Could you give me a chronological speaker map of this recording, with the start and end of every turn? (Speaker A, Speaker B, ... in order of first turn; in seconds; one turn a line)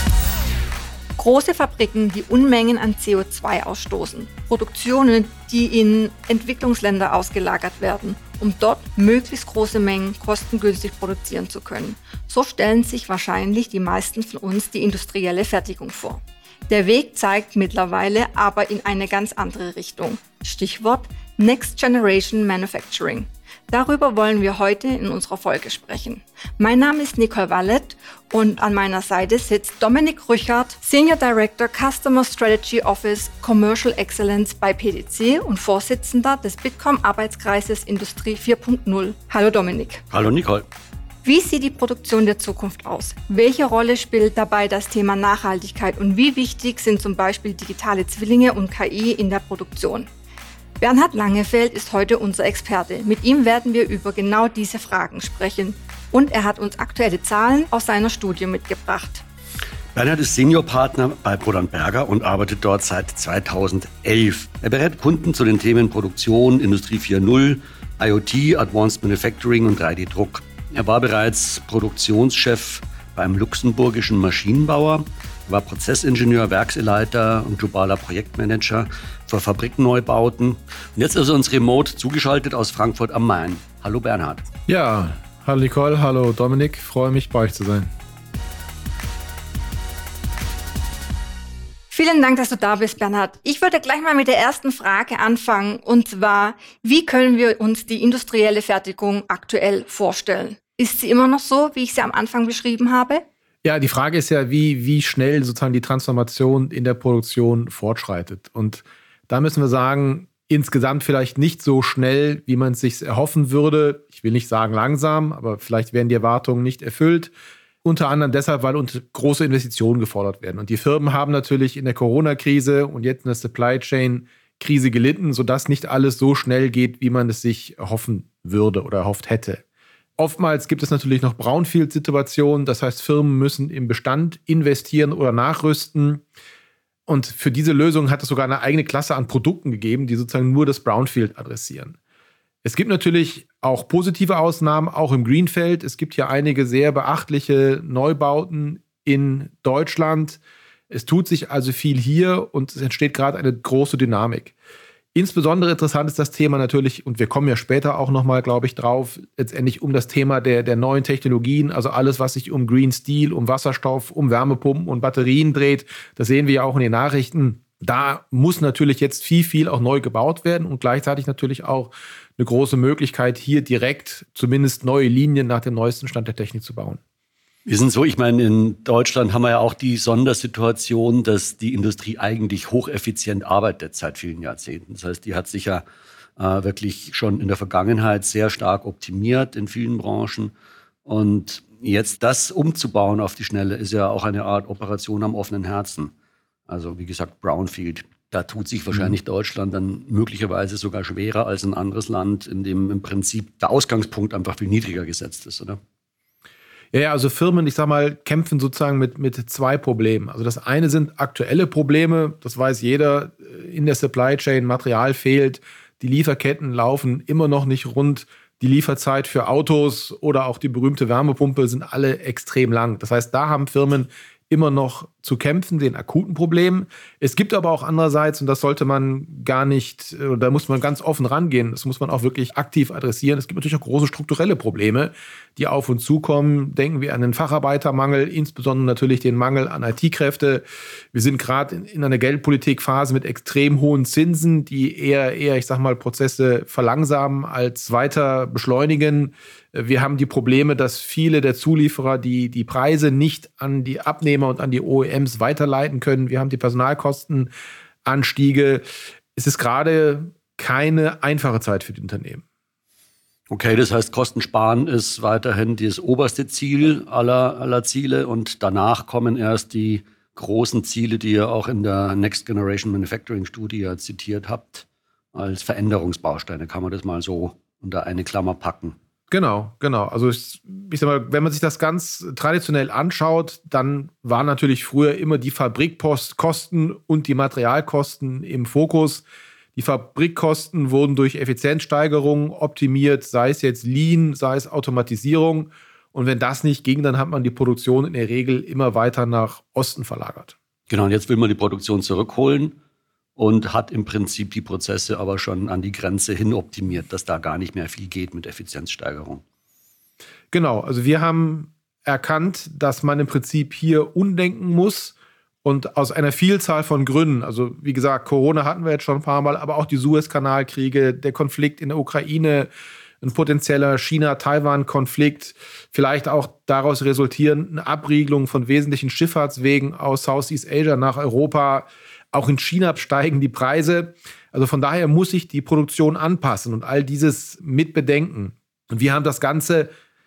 Speaker A: 1.2-40.0
Speaker B: 40.1-40.7
Speaker A: 41.2-50.1
Speaker A: 50.8-59.2
Speaker B: 59.9-84.5
Speaker C: 84.7-87.9
Speaker A: 91.9-103.2
Speaker C: 103.6-117.3
Speaker C: 117.8-129.6
Speaker C: 130.2-136.2
Speaker C: 137.1-141.9
Speaker C: 142.6-154.5
Speaker C: 155.1-177.0
Speaker B: 177.7-185.8
Speaker B: 186.4-190.5
Speaker B: 191.1-196.1
Speaker B: 196.7-205.8
Speaker C: 206.9-257.5
Speaker C: 258.1-258.8
Speaker C: 259.4-262.4
Speaker B: 263.5-278.9
Speaker C: 279.3-289.2
Speaker C: 289.8-300.5
Speaker B: 300.9-302.8
Speaker B: 303.4-309.4
Speaker C: 310.5-322.7
Speaker C: 323.2-339.9